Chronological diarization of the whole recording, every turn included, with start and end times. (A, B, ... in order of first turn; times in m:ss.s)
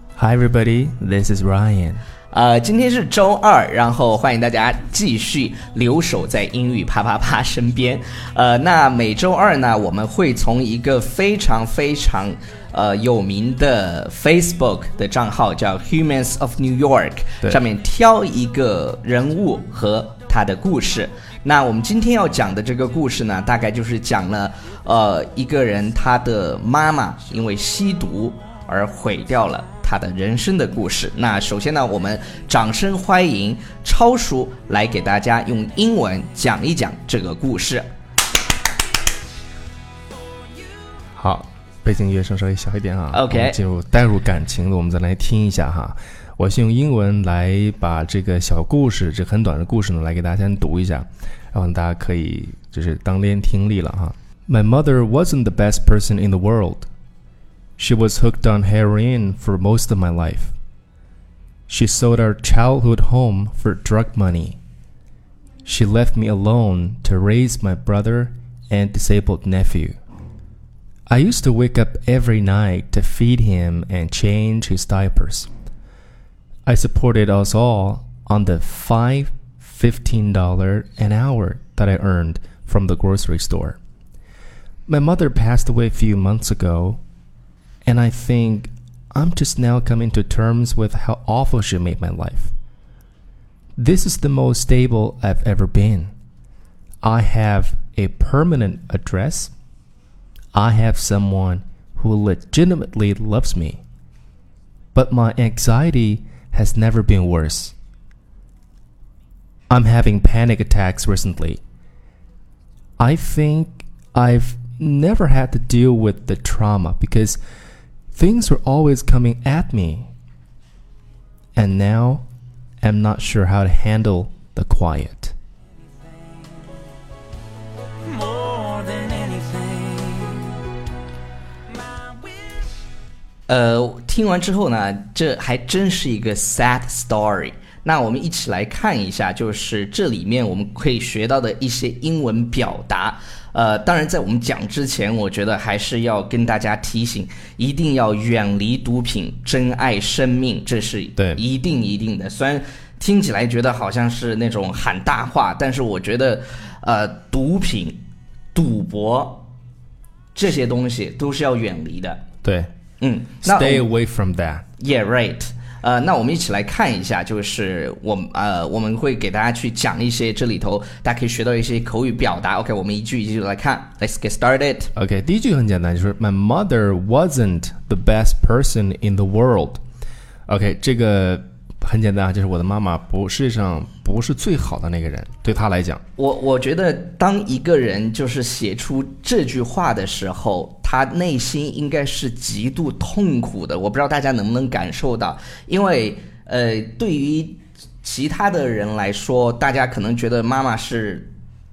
0:00.2-0:02.0 A
0:02.3-0:37.9 B
0:41.2-0:56.9 A
0:43.1-0:43.6 B
0:57.8-1:00.5 A
1:01.7-1:04.6 A
1:05.6-1:10.0 A
1:11.1-1:15.5 A
1:16.6-1:23.8 A
1:24.9-1:27.0 A
1:27.8-1:32.5 A
1:33.8-1:36.1 A
1:37.0-1:39.5 A
1:40.5-1:43.8 A
1:44.9-1:47.7 A
1:49.7-1:51.6 A
1:53.0-1:57.4 A
1:58.1-2:00.1 A
2:01.6-2:02.3 A
2:02.8-2:05.3 A
2:08.0-2:10.6 C
2:11.8-2:12.3 C
2:13.5-2:38.0 B
2:31.2-2:31.4 A
2:38.5-2:39.5 B
2:40.3-2:42.2 B
2:42.4-2:42.7 A
2:43.0-2:43.9 B
2:43.4-2:44.6 A
2:44.8-2:54.9 B
2:55.0-2:59.8 A
3:00.5-3:06.0 A
3:06.2-3:21.3 B